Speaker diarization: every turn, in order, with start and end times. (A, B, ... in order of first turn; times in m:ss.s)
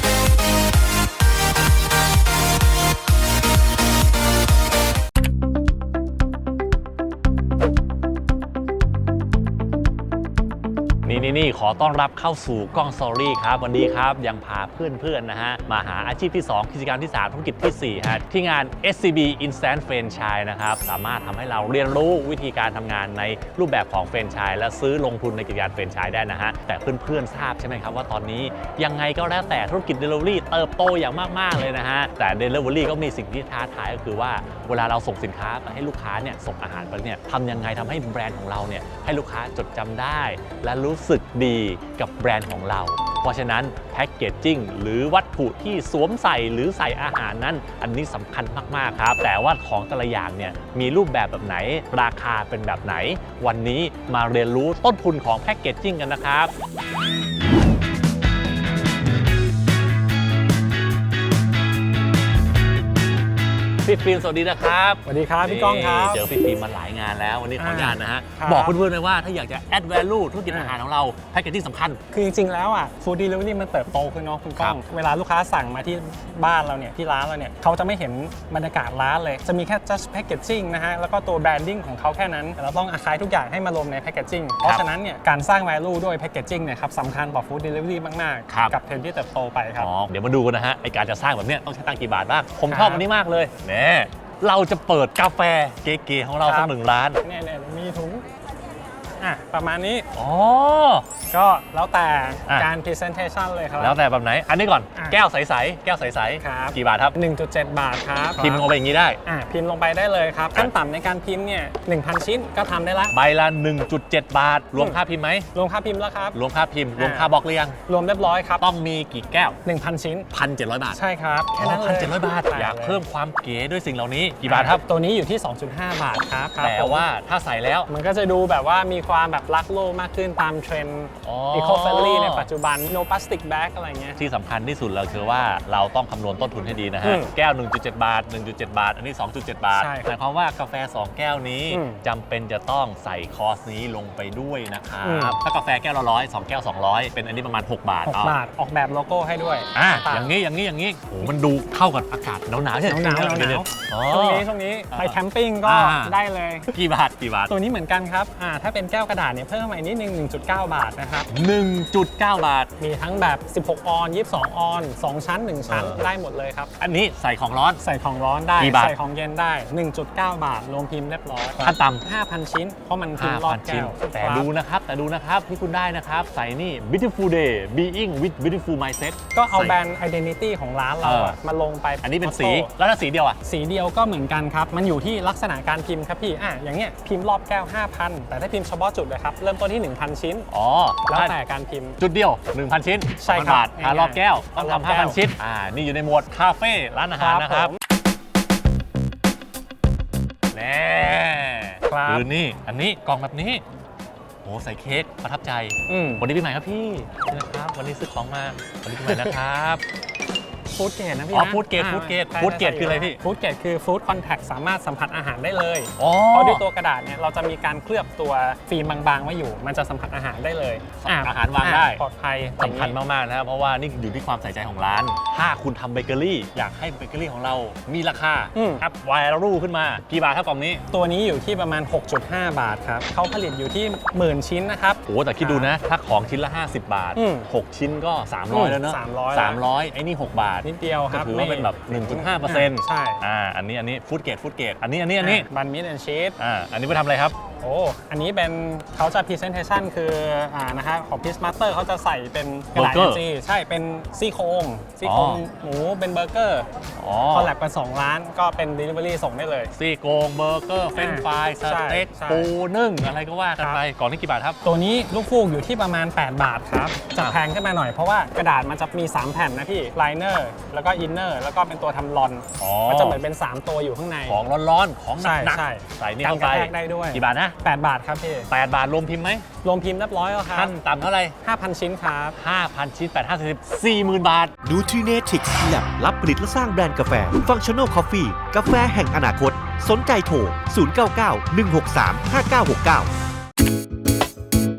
0:11.0-0:56.5 A
1:03.8-1:12.0 A
1:05.1-1:06.3 B
1:07.6-1:08.8 B
1:10.5-1:10.8 B
1:12.1-1:29.9 B
1:28.5-1:28.8 A
1:29.8-1:37.2 A
1:32.7-1:33.0 B
1:36.4-1:38.3 B
1:39.2-1:40.0 B
1:40.1-1:41.1 A
1:41.3-1:44.0 B
1:43.8-1:47.2 A
1:46.4-1:48.7 B
1:48.4-1:49.2 A
1:49.2-1:53.1 B
1:53.1-1:55.5 A
1:55.5-1:56.4 B
1:56.3-1:57.8 A
1:57.0-1:57.3 B
1:57.9-1:58.6 B
1:58.6-1:59.6 A
1:59.6-2:00.3 B
2:00.3-2:01.0 A
2:00.9-2:03.0 B
2:01.6-2:04.8 A
2:04.4-2:07.1 B
2:06.6-2:07.9 A
2:07.9-2:14.2 B
2:11.2-2:12.5 A
2:14.2-2:28.4 A
2:17.0-2:17.3 B
2:19.7-2:20.1 B
2:21.7-2:22.0 B
2:25.0-2:25.4 B
2:28.1-2:30.3 B
2:29.7-2:36.2 A
2:32.9-2:36.8 B
2:36.7-2:37.5 A
2:37.5-2:41.3 B
2:41.3-2:42.7 A
2:42.8-2:46.7 B
2:45.7-2:46.0 A
2:46.8-2:47.8 A
2:47.8-2:54.5 B
2:48.6-2:49.0 A
2:51.6-2:52.0 A
2:53.2-2:59.8 A
2:59.3-3:02.7 B
3:01.0-3:01.4 A
3:02.0-3:03.4 A
3:03.4-3:10.5 B
3:10.5-3:11.3 A
3:11.1-3:12.0 B
3:12.0-3:17.8 A
3:13.2-3:15.2 B
3:17.2-3:17.7 B
3:20.5-3:23.6 A
3:21.9-3:22.3 B
3:24.4-3:29.8 A
3:25.9-3:26.2 B
3:30.7-3:43.0 B
3:31.3-3:33.2 A
3:36.0-3:36.6 A
3:41.0-3:42.0 A
3:42.6-3:50.8 A
3:48.6-3:48.8 B
3:50.9-3:55.7 B
3:55.1-4:05.5 A
3:57.2-3:57.5 B
3:58.5-3:59.6 B
4:00.6-4:03.2 B
4:05.2-4:06.4 B
4:06.4-4:07.4 A
4:07.6-4:16.7 B
4:12.7-4:13.2 A
4:15.0-4:15.4 A
4:17.0-4:17.5 A
4:17.3-4:19.7 B
4:19.7-4:24.6 A
4:21.0-4:22.5 B
4:24.6-4:34.4 B
4:32.6-4:33.2 A
4:34.3-4:37.6 A
4:35.2-4:38.5 B
4:38.5-4:39.5 A
4:39.6-4:40.8 B
4:40.5-4:41.4 A
4:41.4-4:42.4 B
4:42.4-4:44.6 A
4:44.6-4:53.1 C